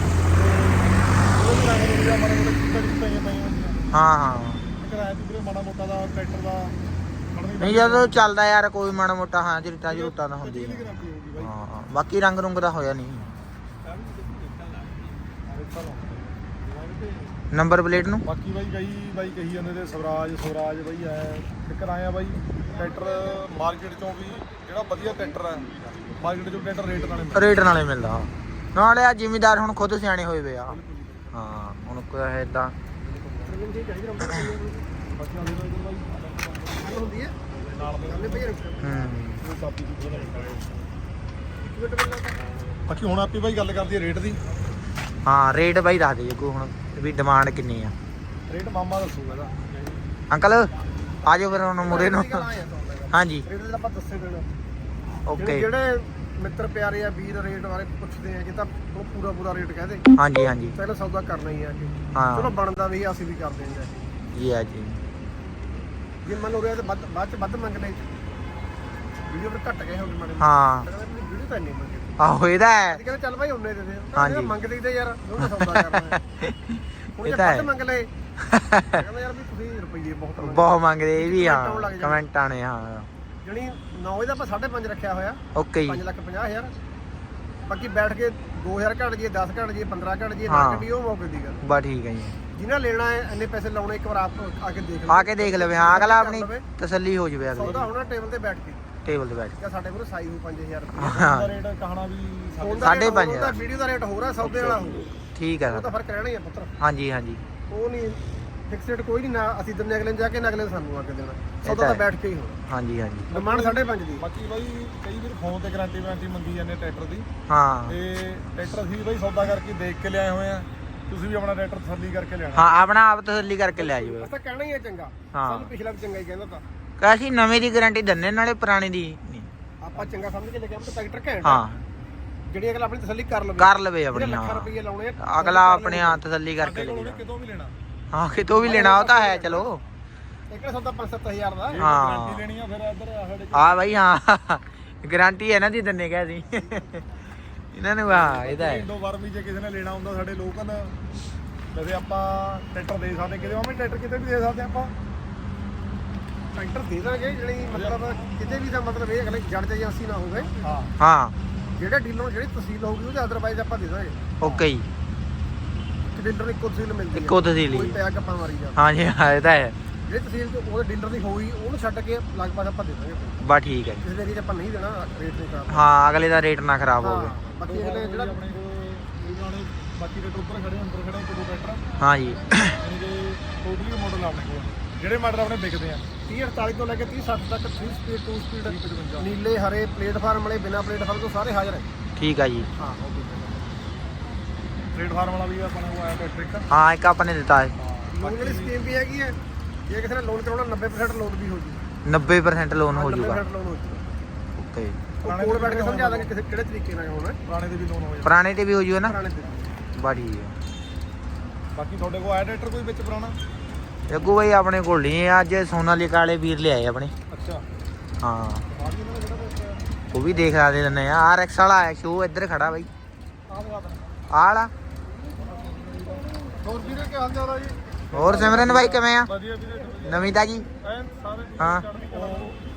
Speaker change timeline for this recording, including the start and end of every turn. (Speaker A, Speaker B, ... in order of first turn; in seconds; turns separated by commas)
Speaker A: 0.3-3.8, Speaker B: 3.9-4.7, Speaker A: 4.8-6.8, Speaker A: 7.3-8.3, Speaker B: 7.6-13.3, Speaker A: 9.9-11.5, Speaker A: 13.9-14.6, Speaker A: 15.5-17.3, Speaker B: 17.5-18.3, Speaker A: 18.2-27.7, Speaker B: 27.3-30.8, Speaker A: 30.9-31.2, Speaker B: 31.3-32.8, Speaker C: 33.0-34.9, Speaker A: 35.1-38.6, Speaker C: 36.8-37.4, Speaker C: 38.1-39.0, Speaker B: 38.8-39.4, Speaker A: 39.4-40.9, Speaker C: 41.6-42.4, Speaker A: 42.9-44.4, Speaker B: 45.2-47.9, Speaker A: 48.5-49.5, Speaker B: 50.3-50.7, Speaker B: 51.2-52.4, Speaker C: 51.8-54.5, Speaker B: 53.1-53.5, Speaker B: 55.3-55.7, Speaker C: 55.4-60.1, Speaker B: 60.2-60.8, Speaker C: 60.6-64.0, Speaker B: 62.1-62.5, Speaker B: 64.3-65.0, Speaker C: 66.2-68.2, Speaker C: 69.3-72.2, Speaker B: 70.4-70.9, Speaker B: 72.2-73.0, Speaker C: 72.9-76.2, Speaker B: 74.2-74.5, Speaker B: 75.4-77.7, Speaker C: 77.2-78.1, Speaker B: 78.4-79.0, Speaker C: 78.9-82.3, Speaker B: 80.4-83.1, Speaker C: 83.4-86.7, Speaker B: 85.5-86.0, Speaker C: 87.7-91.6, Speaker B: 90.5-90.9, Speaker B: 91.6-92.4, Speaker C: 92.5-96.7, Speaker B: 95.1-97.8, Speaker C: 97.5-98.8, Speaker A: 97.6-97.9, Speaker B: 99.0-99.6, Speaker C: 99.6-101.2, Speaker B: 101.0-101.5, Speaker A: 101.0-103.2, Speaker C: 102.6-105.1, Speaker B: 102.8-103.6, Speaker A: 104.4-105.0, Speaker B: 105.3-105.9, Speaker C: 105.7-106.7, Speaker B: 106.8-107.4, Speaker C: 107.7-112.6, Speaker B: 111.6-112.0, Speaker B: 112.7-113.3, Speaker A: 113.3-117.3, Speaker C: 113.3-114.2, Speaker B: 117.5-118.0, Speaker A: 117.9-122.7, Speaker B: 122.5-124.3, Speaker C: 123.7-126.7, Speaker B: 125.3-125.7, Speaker B: 127.0-129.5, Speaker C: 129.8-131.7, Speaker B: 131.4-131.8, Speaker C: 132.5-136.2, Speaker B: 133.6-134.7, Speaker B: 135.2-137.2, Speaker A: 136.6-137.7, Speaker B: 138.1-139.8, Speaker C: 138.4-139.7, Speaker C: 140.5-141.8, Speaker A: 141.7-144.0, Speaker B: 141.8-142.4, Speaker B: 143.5-147.2, Speaker B: 147.7-148.9, Speaker A: 148.1-151.0, Speaker A: 151.7-154.9, Speaker C: 156.6-160.5, Speaker A: 157.7-158.0, Speaker A: 160.6-161.0, Speaker B: 161.0-161.3, Speaker C: 161.8-164.6, Speaker B: 164.4-164.9, Speaker C: 166.1-168.8, Speaker B: 167.1-168.0, Speaker B: 168.8-169.8, Speaker C: 170.1-173.4, Speaker B: 173.4-174.1, Speaker C: 174.0-175.9, Speaker B: 175.7-177.3, Speaker C: 177.0-178.4, Speaker A: 177.6-181.8, Speaker B: 182.0-182.8, Speaker A: 182.8-186.0, Speaker C: 186.3-191.9, Speaker A: 188.7-189.3, Speaker B: 192.2-192.7, Speaker C: 192.8-193.7, Speaker A: 194.9-196.7, Speaker B: 196.7-197.8, Speaker A: 197.8-198.8, Speaker C: 198.1-201.8, Speaker B: 202.1-203.4, Speaker C: 202.9-204.2, Speaker B: 204.6-205.0, Speaker A: 205.2-206.3, Speaker C: 205.2-207.4, Speaker A: 207.4-208.4, Speaker B: 208.2-209.2, Speaker C: 209.1-209.7, Speaker B: 210.0-210.6, Speaker A: 211.8-213.4, Speaker B: 214.1-217.1, Speaker A: 217.3-217.7, Speaker B: 218.2-218.7, Speaker A: 218.7-219.8, Speaker B: 220.1-222.9, Speaker A: 223.5-224.2, Speaker B: 224.3-224.7, Speaker A: 225.4-232.6, Speaker C: 226.8-227.1, Speaker B: 228.1-229.3, Speaker B: 230.1-230.7, Speaker B: 231.6-231.8, Speaker C: 232.1-232.5